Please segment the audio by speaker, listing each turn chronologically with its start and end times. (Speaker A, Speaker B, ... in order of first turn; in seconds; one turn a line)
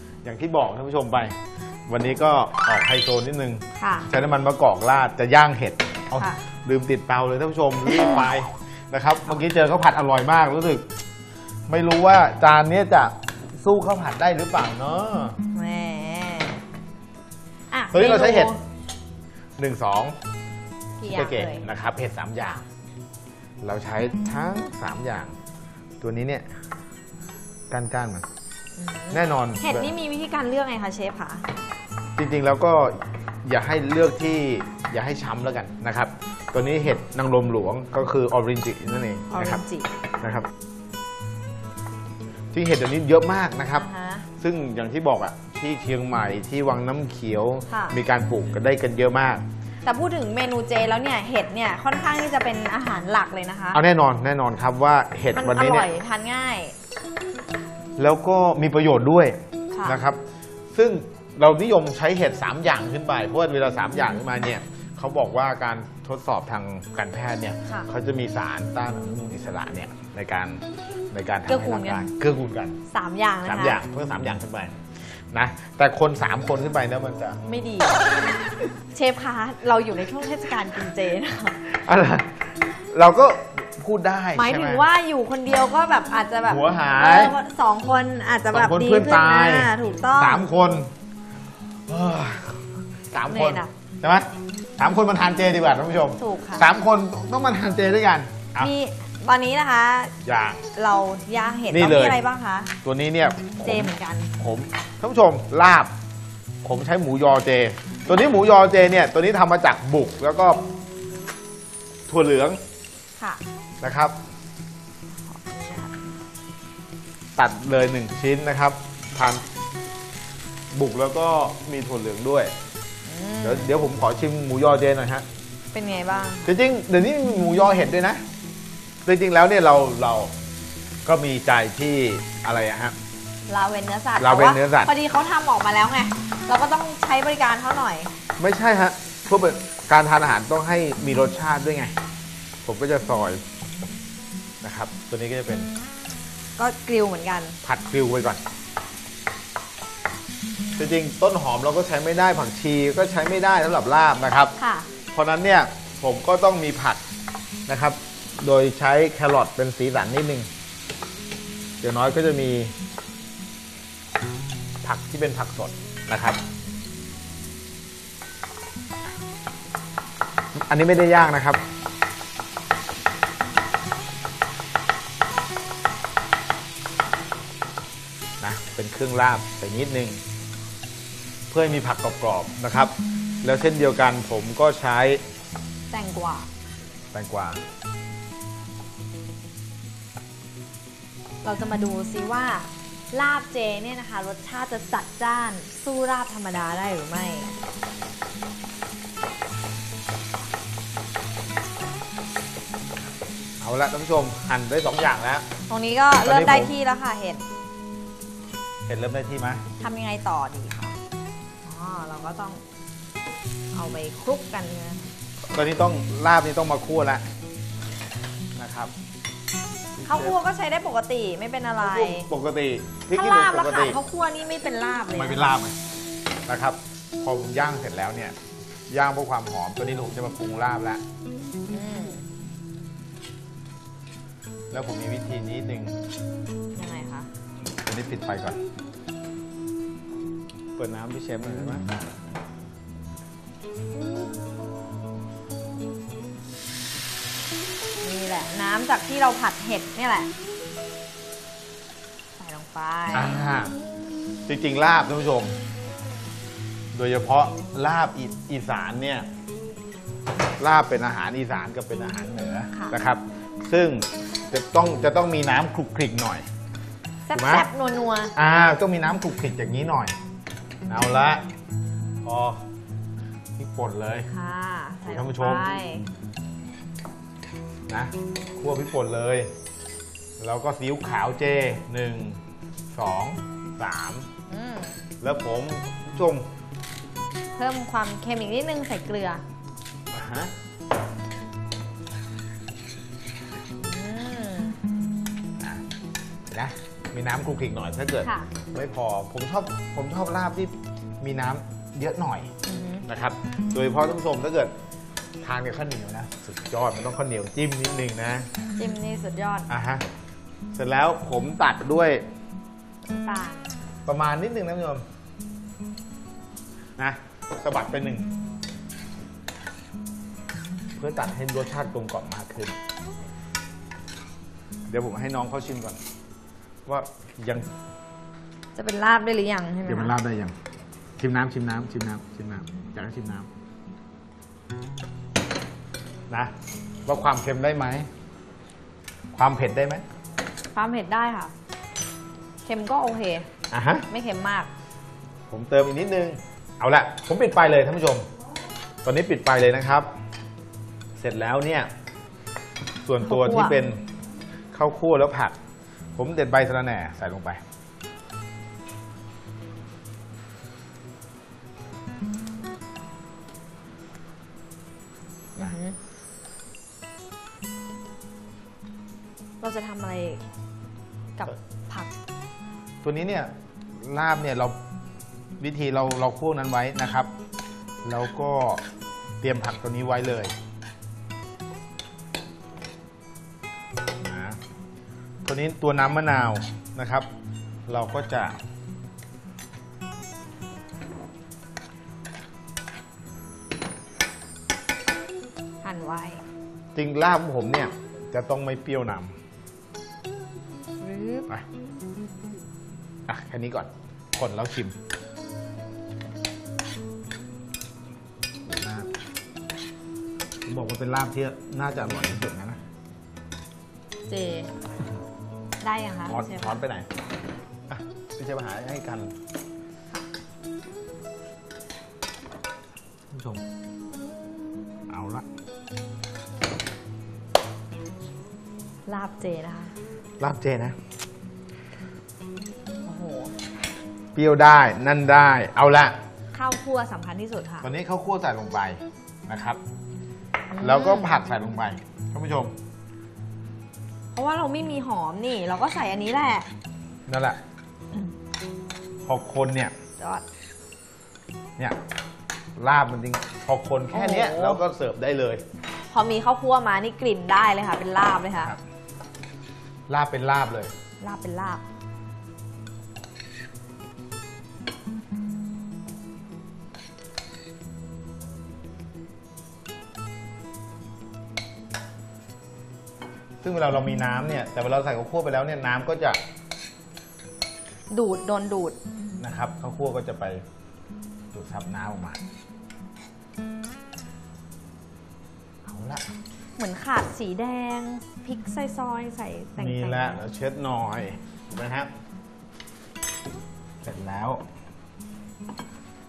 Speaker A: 0.2-1.4
Speaker A: 1.9-10.8
Speaker B: 3.8-4.1
Speaker B: 6.2-6.4
Speaker A: 11.7-15.4
Speaker B: 15.5-16.6
Speaker B: 17.7-18.6
Speaker A: 17.9-18.5
Speaker A: 19.6-20.1
Speaker B: 21.0-21.6
Speaker A: 21.1-22.6
Speaker A: 23.6-25.3
Speaker A: 26.0-26.5
Speaker A: 27.7-28.3
Speaker B: 28.8-31.5
Speaker A: 29.1-29.9
Speaker A: 32.2-39.6
Speaker B: 39.3-39.9
Speaker A: 40.2-40.5
Speaker A: 42.5-43.9
Speaker B: 43.7-44.3
Speaker A: 44.4-49.4
Speaker B: 47.7-48.0
Speaker B: 49.9-53.8
Speaker A: 53.7-55.9
Speaker B: 55.3-56.8
Speaker A: 58.0-60.2
Speaker B: 59.7-60.0
Speaker A: 60.7-72.8
Speaker B: 71.5-72.1
Speaker B: 72.9-73.8
Speaker A: 73.5-77.5
Speaker B: 77.5-78.1
Speaker B: 78.9-81.6
Speaker A: 81.6-84.8
Speaker B: 84.3-90.5
Speaker A: 86.5-87.4
Speaker A: 88.5-90.9
Speaker A: 91.9-98.7
Speaker B: 93.2-93.7
Speaker B: 96.2-96.7
Speaker B: 98.6-100.1
Speaker A: 100.2-100.6
Speaker B: 100.8-102.7
Speaker A: 101.7-102.2
Speaker A: 102.8-105.9
Speaker B: 103.6-104.3
Speaker A: 106.6-110.6
Speaker A: 112.1-112.6
Speaker B: 113.2-113.4
Speaker A: 113.8-114.2
Speaker B: 115.3-116.2
Speaker A: 117.4-119.4
Speaker A: 120.7-122.5
Speaker B: 123.1-123.7
Speaker A: 123.4-125.2
Speaker B: 125.7-126.5
Speaker A: 126.5-128.2
Speaker A: 129.1-130.3
Speaker A: 131.1-132.9
Speaker B: 133.5-138.1
Speaker A: 134.2-134.9
Speaker A: 138.4-141.9
Speaker A: 142.7-143.4
Speaker A: 144.6-145.7
Speaker B: 146.6-147.6
Speaker A: 147.6-148.4
Speaker A: 150.8-154.6
Speaker B: 154.6-154.9
Speaker A: 155.1-157.0
Speaker A: 157.7-160.5
Speaker A: 161.8-162.8
Speaker A: 164.8-166.4
Speaker A: 170.6-171.6
Speaker A: 178.4-180.2
Speaker A: 181.5-185.2
Speaker B: 185.9-186.5
Speaker A: 187.1-187.6
Speaker B: 191.4-197.5
Speaker A: 203.6-205.5
Speaker B: 205.7-207.4
Speaker A: 206.2-206.7
Speaker A: 208.9-209.6
Speaker B: 209.8-210.9
Speaker B: 211.7-212.6
Speaker B: 213.7-215.1
Speaker A: 215.5-217.2
Speaker A: 218.6-218.9
Speaker A: 220.0-220.4
Speaker B: 220.1-222.3
Speaker A: 221.8-224.0
Speaker B: 223.1-225.5
Speaker A: 225.1-225.8
Speaker A: 226.5-228.3
Speaker A: 228.9-231.0
Speaker B: 231.7-232.3
Speaker A: 234.7-236.0
Speaker B: 236.8-237.3
Speaker A: 237.8-238.6
Speaker A: 240.8-241.9
Speaker B: 248.0-250.3
Speaker B: 252.4-253.4
Speaker A: 253.1-253.8
Speaker A: 254.5-255.6
Speaker A: 256.9-259.3
Speaker A: 260.6-266.5
Speaker B: 267.3-268.3
Speaker A: 267.3-267.7
Speaker A: 268.4-270.2
Speaker A: 270.9-271.4
Speaker A: 272.2-272.6
Speaker A: 273.6-274.3
Speaker B: 274.3-276.1
Speaker A: 275.1-275.7
Speaker A: 277.9-279.5
Speaker A: 280.4-282.4
Speaker A: 282.9-284.3
Speaker B: 284.5-285.0
Speaker A: 285.2-286.5
Speaker B: 287.6-289.4
Speaker A: 290.1-290.5
Speaker B: 293.8-294.8
Speaker A: 296.5-302.5
Speaker B: 298.2-298.5
Speaker B: 302.6-303.1
Speaker A: 303.1-304.7
Speaker A: 305.4-308.5
Speaker B: 308.8-309.7
Speaker A: 309.7-310.0
Speaker A: 310.7-312.2
Speaker B: 313.1-313.7
Speaker A: 314.1-315.0
Speaker A: 317.0-318.3
Speaker A: 321.0-322.8
Speaker A: 324.9-326.0
Speaker A: 326.9-327.7
Speaker B: 328.8-330.1
Speaker A: 329.9-330.5
Speaker A: 331.2-333.5
Speaker A: 337.1-338.1
Speaker A: 339.3-340.0
Speaker B: 340.7-341.5
Speaker B: 342.6-343.5
Speaker A: 343.7-344.1
Speaker B: 344.1-344.7
Speaker A: 345.5-348.2
Speaker A: 349.0-350.1
Speaker A: 351.2-351.9
Speaker A: 353.0-354.0
Speaker B: 353.2-353.8
Speaker A: 354.7-355.6
Speaker A: 356.2-357.6
Speaker B: 365.6-366.0
Speaker B: 369.6-370.4
Speaker B: 371.4-372.1
Speaker A: 373.0-374.8
Speaker A: 375.6-377.3
Speaker A: 378.0-378.8
Speaker A: 379.4-380.5
Speaker A: 384.2-384.6
Speaker A: 385.4-387.3
Speaker A: 387.9-388.6
Speaker B: 395.8-396.4
Speaker A: 396.9-399.3
Speaker B: 401.0-401.5
Speaker A: 403.3-404.9
Speaker A: 408.6-409.1
Speaker A: 410.7-412.8
Speaker B: 414.3-414.7
Speaker B: 415.8-416.8
Speaker A: 416.3-417.1
Speaker A: 417.9-419.3
Speaker A: 423.3-423.6
Speaker A: 425.1-425.4
Speaker B: 429.1-429.9
Speaker A: 430.4-431.0
Speaker B: 433.1-433.5
Speaker A: 434.3-436.2
Speaker B: 436.5-437.9
Speaker A: 437.8-439.8
Speaker B: 440.7-441.4
Speaker A: 440.8-442.7
Speaker B: 444.3-446.7
Speaker A: 447.3-447.6
Speaker A: 449.2-449.9
Speaker B: 450.2-450.4
Speaker A: 452.8-455.6
Speaker B: 454.1-454.8
Speaker B: 456.1-458.7
Speaker A: 460.1-460.9
Speaker B: 461.2-461.8
Speaker A: 473.6-476.4
Speaker B: 478.1-479.0
Speaker A: 479.4-480.6
Speaker A: 481.5-482.4
Speaker A: 485.9-486.3
Speaker B: 486.8-490.4
Speaker A: 489.8-492.1
Speaker A: 494.0-494.6